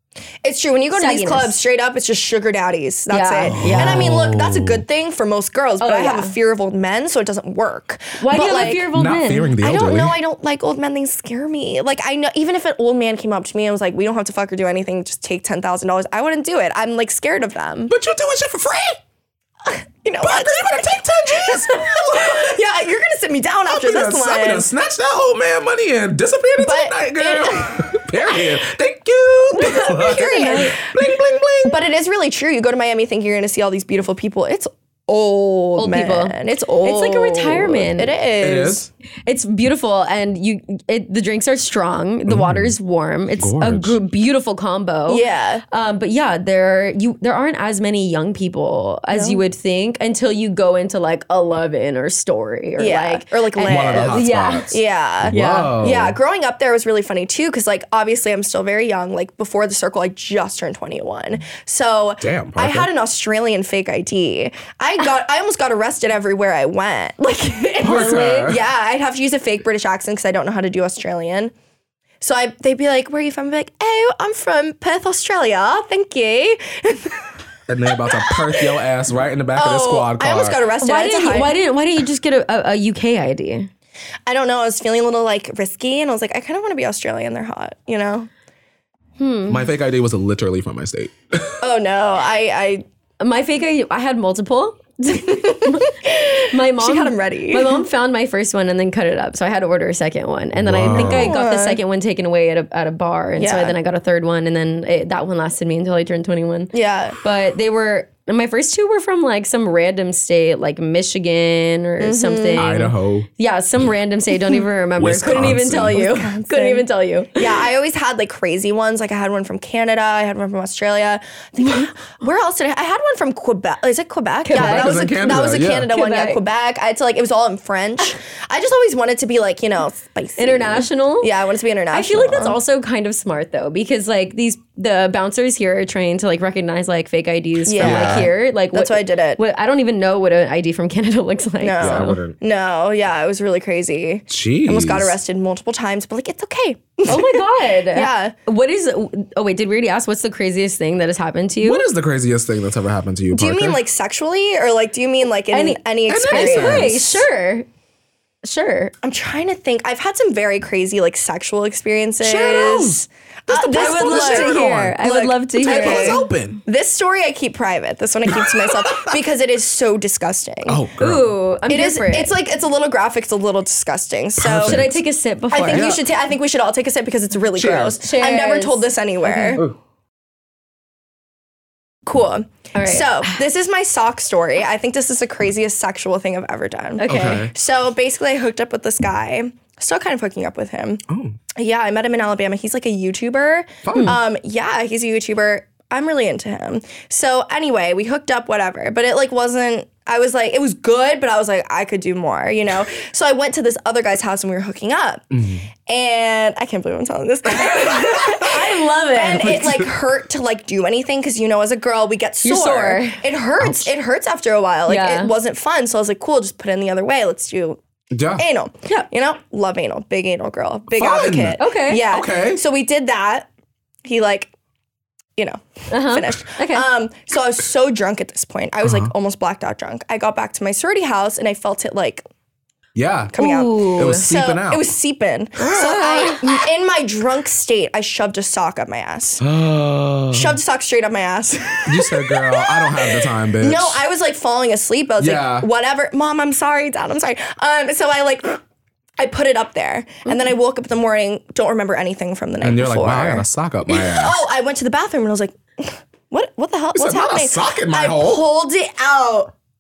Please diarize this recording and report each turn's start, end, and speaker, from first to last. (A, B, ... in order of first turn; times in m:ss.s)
0:00.4-0:08.9 A
0:00.9-0:01.6 B
0:03.1-0:04.1 B
0:03.5-0:04.8 C
0:05.8-0:06.4 B
0:08.2-0:09.5 B
0:08.9-0:10.2 C
0:09.6-0:17.9 A
0:17.9-0:19.0 C
0:19.7-0:24.7 A
0:20.2-0:22.6 C
0:23.7-0:31.8 C
0:26.6-0:27.9 A
0:29.6-0:30.9 A
0:30.4-0:30.7 B
0:31.6-0:38.8 A
0:35.8-0:38.1 B
0:38.4-0:38.9 C
0:39.3-0:54.7 B
0:42.3-0:42.8 C
0:43.4-0:44.0 C
0:45.1-0:45.6 A
0:49.1-0:49.4 A
0:52.8-1:11.5 A
0:53.6-0:56.2 C
0:55.3-0:55.8 B
1:02.2-1:02.9 C
1:07.8-1:08.5 B
1:07.8-1:08.6 C
1:12.2-1:17.3 A
1:17.7-1:20.6 C
1:17.9-1:18.7 A
1:19.6-1:21.6 A
1:20.8-1:23.7 B
1:24.3-1:28.3 A
1:29.2-1:29.7 B
1:29.5-1:31.6 C
1:31.6-1:32.8 A
1:33.2-1:36.0 B
1:36.0-1:37.8 A
1:36.5-1:57.4 B
1:40.6-1:41.4 C
1:40.9-1:41.8 A
1:43.4-1:43.8 A
1:46.7-1:47.2 A
1:52.0-1:52.8 A
1:52.6-1:53.3 C
1:55.0-1:56.1 C
1:55.9-2:12.6 A
2:04.4-2:06.4 B
2:04.5-2:05.9 C
2:10.4-2:11.3 B
2:11.9-2:22.2 B
2:17.6-2:19.4 A
2:17.8-2:18.3 C
2:21.6-2:28.4 A
2:21.8-2:22.4 C
2:24.3-2:25.2 C
2:27.1-2:31.8 B
2:31.6-2:33.8 C
2:33.3-2:37.2 A
2:35.5-2:37.7 B
2:36.1-2:37.2 C
2:38.4-2:38.9 B
2:39.0-2:50.8 A
2:42.2-2:45.0 C
2:43.5-2:46.2 B
2:45.6-2:46.6 C
2:48.3-2:49.1 C
2:50.7-2:51.4 C
2:51.0-2:52.3 B
2:51.7-2:54.8 A
2:54.4-2:55.0 C
2:54.6-2:55.9 B
2:55.5-2:59.6 A
2:55.6-2:56.0 C
2:57.6-2:58.0 C
2:58.0-2:59.6 B
3:02.1-3:11.0 A
3:02.7-3:03.4 B
3:07.0-3:07.5 B
3:07.1-3:07.5 C
3:11.1-3:11.4 C
3:11.6-3:25.3 A
3:13.8-3:14.2 C
3:25.3-3:25.7 C
3:25.9-3:37.8 A
3:28.2-3:29.6 B
3:29.4-3:29.9 C
3:32.4-3:33.2 B
3:33.6-3:33.9 C
3:34.9-3:35.3 B
3:38.1-3:38.5 C
3:38.4-3:43.5 A
3:40.9-3:42.6 C
3:41.6-3:42.0 B
3:44.0-3:44.5 A
3:45.4-3:52.3 A
3:45.9-3:46.9 B
3:48.8-3:49.1 C
3:53.0-3:54.9 C
3:53.3-3:59.4 A
3:53.4-3:54.2 B
3:55.9-3:56.4 B
3:59.4-4:00.6 C
4:00.3-4:08.6 A
4:01.9-4:04.0 C
4:05.2-4:05.7 C
4:09.2-4:19.5 A
4:12.6-4:14.4 C
4:16.9-4:18.4 C